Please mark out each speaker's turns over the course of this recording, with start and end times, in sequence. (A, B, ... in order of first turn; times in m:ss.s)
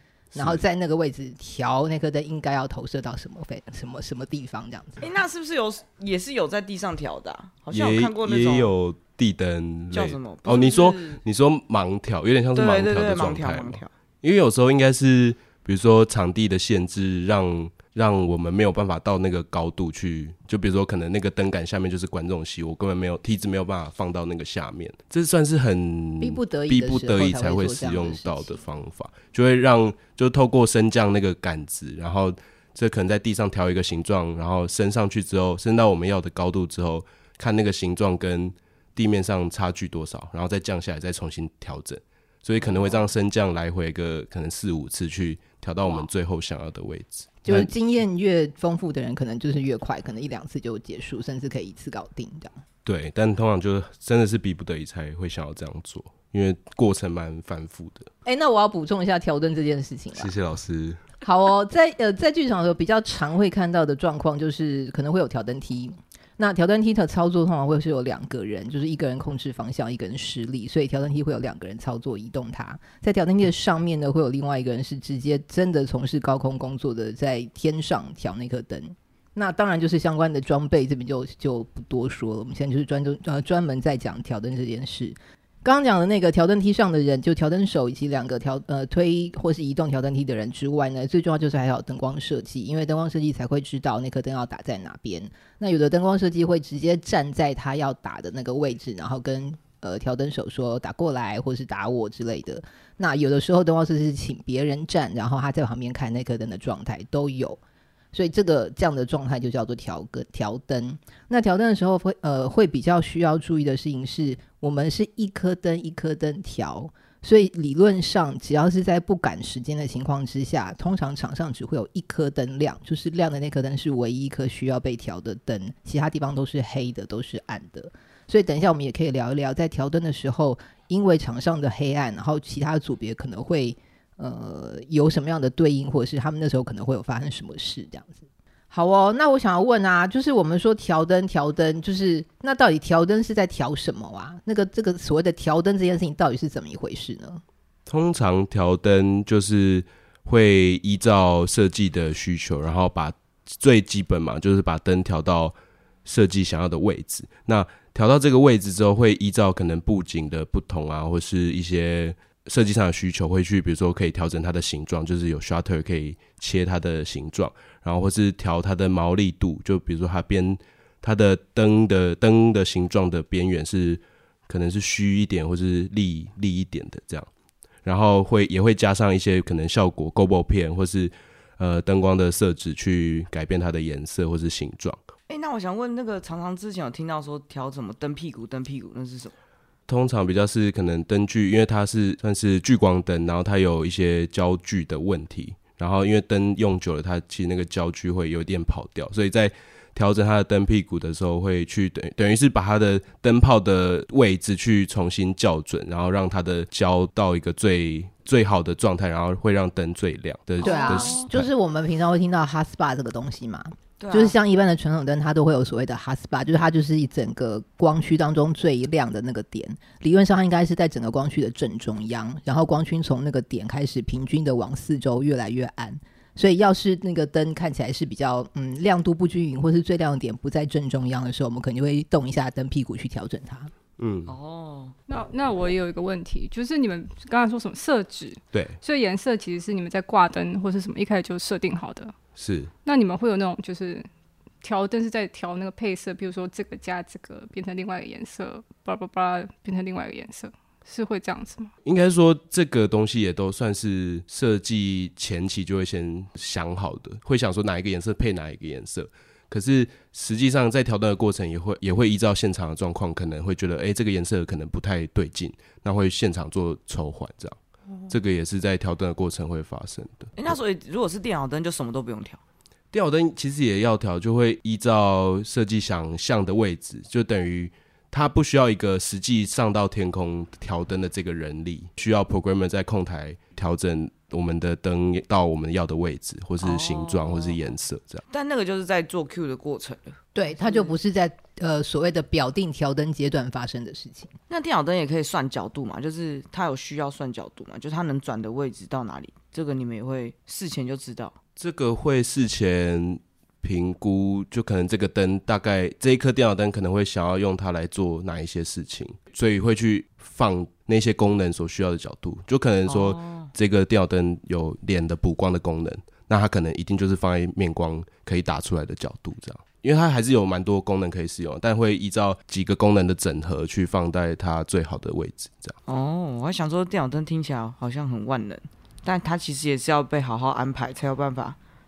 0:00.3-0:00.6 A
0:00.3-0:05.0 B
0:05.0-0:08.7 C
0:07.7-0:47.7 A
0:09.9-0:11.2 C
0:12.5-0:13.9 C
0:26.2-0:28.6 B
0:42.6-0:43.1 C
0:45.8-0:46.1 C
0:47.4-0:52.5 B
0:52.8-0:58.1 A
0:58.2-1:00.3 B
1:00.1-1:01.0 A
1:01.2-1:47.6 B
1:48.1-2:27.4 B
2:27.9-2:57.3 A
2:57.8-3:05.0 A
3:05.3-3:09.3 C
3:09.9-3:31.5 A
3:30.6-3:53.7 B
3:30.6-3:31.3 C
3:34.0-3:34.4 C
3:54.0-3:54.3 A
3:54.3-3:54.9 C
3:55.1-4:02.1 D
3:58.5-3:58.8 A
4:02.4-4:02.7 A
4:02.8-4:04.1 D
4:04.6-4:11.7 D
4:11.8-4:27.6 A
4:28.1-4:30.3 A
4:30.4-4:32.4 C
4:32.9-4:48.2 A
4:46.6-4:47.6 C
4:48.3-4:50.9 C
4:50.3-4:54.3 B
4:54.5-5:01.3 C
5:01.6-5:25.8 A
5:12.8-5:13.5 C
5:25.8-5:31.6 C